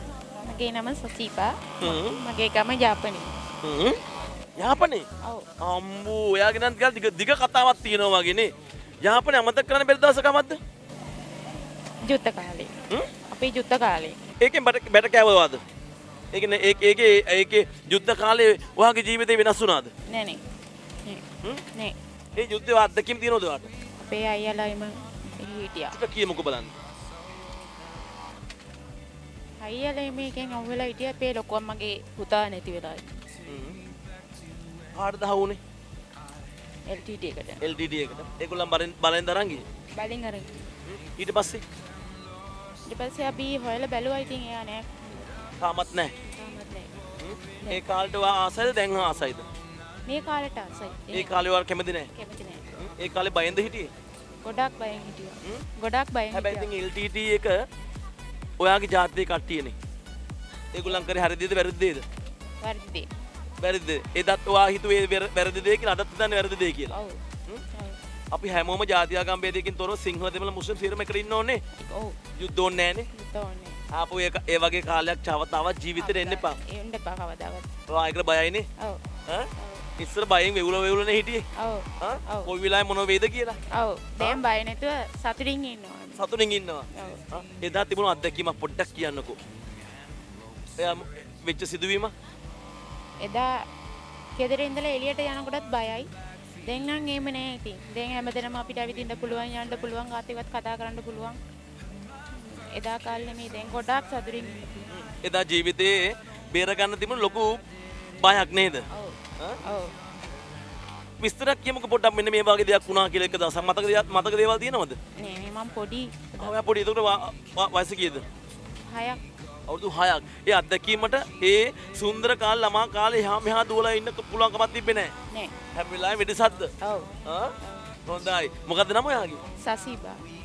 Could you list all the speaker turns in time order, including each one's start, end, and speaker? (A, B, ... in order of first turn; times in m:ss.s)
0:00.4-0:03.4 A
0:01.8-0:02.2 B
0:03.6-0:04.0 B
0:04.6-0:05.0 B
0:05.2-0:05.5 A
0:05.6-0:10.6 B
0:12.0-0:14.2 A
0:14.4-0:15.6 B
0:16.3-0:19.9 B
0:20.1-0:20.4 A
0:21.0-0:22.0 A
0:22.3-0:23.7 B
0:24.0-0:26.0 A
0:25.9-0:26.8 B
0:29.6-0:33.2 A
0:33.5-0:33.8 B
0:35.0-0:35.6 B
0:36.9-0:37.6 A
0:37.6-0:39.6 B
0:39.9-0:40.6 A
0:40.9-0:41.6 B
0:42.9-0:45.3 A
0:45.6-0:46.1 B
0:46.4-0:47.0 A
0:47.2-0:49.5 B
0:50.1-0:51.4 A
0:51.1-0:52.1 B
0:52.1-0:52.7 A
0:52.8-0:53.9 B
0:54.4-0:56.7 A
0:56.3-0:57.6 B
0:58.6-0:59.8 B
1:00.7-1:02.0 B
1:02.6-1:03.1 A
1:03.6-1:07.0 B
1:06.9-1:08.0 A
1:08.3-1:11.6 B
1:11.8-1:12.2 A
1:12.4-1:13.1 B
1:13.1-1:13.8 A
1:13.9-1:16.6 B
1:16.0-1:17.7 A
1:17.9-1:18.7 B
1:18.8-1:19.0 A
1:19.3-1:21.4 B
1:19.6-1:19.8 A
1:21.6-1:22.5 A
1:22.0-1:23.6 B
1:23.7-1:26.3 A
1:26.2-1:29.4 B
1:26.9-1:27.3 A
1:30.8-1:32.1 B
1:33.2-1:33.5 A
1:34.4-1:36.1 A
1:36.7-1:41.4 A
1:42.3-1:44.9 A
1:44.9-1:47.6 B
1:48.2-1:48.8 B
1:48.9-1:49.9 A
1:51.2-1:55.0 B
1:55.2-1:56.6 A
1:56.4-1:58.2 B
1:58.9-1:59.2 A
1:59.7-2:05.1 B
2:05.7-2:06.7 B
2:06.8-2:07.9 A
2:07.2-2:07.6 B
2:08.1-2:09.4 B
2:09.6-2:10.2 A